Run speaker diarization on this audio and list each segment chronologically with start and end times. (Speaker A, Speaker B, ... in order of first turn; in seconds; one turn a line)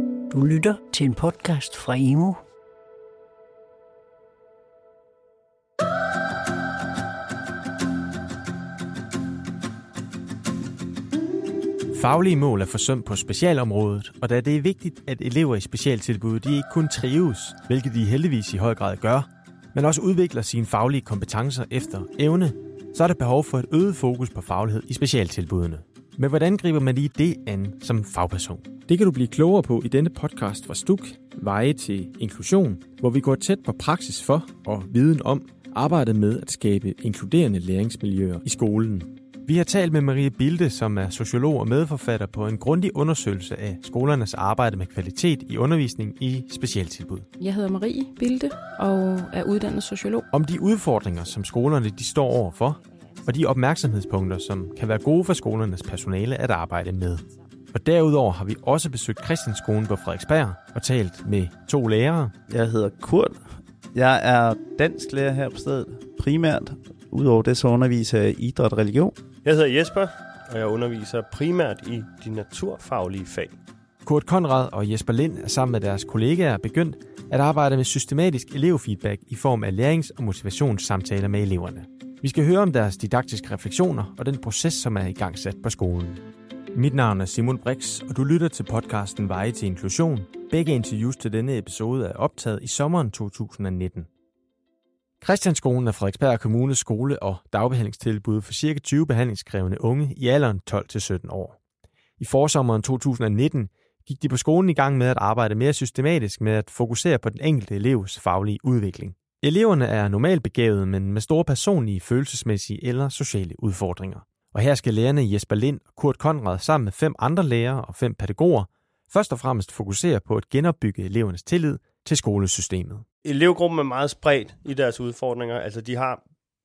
Speaker A: 0.3-2.4
Speaker B: 11.9-47.3
Speaker C: 47.4-50.3
Speaker B: 50.3-62.3
Speaker D: 62.5-69.1
Speaker E: 69.4-73.5
Speaker B: 74.0-94.1
Speaker B: 95.2-101.6
Speaker B: 102.2-123.0
Speaker E: 123.2-126.2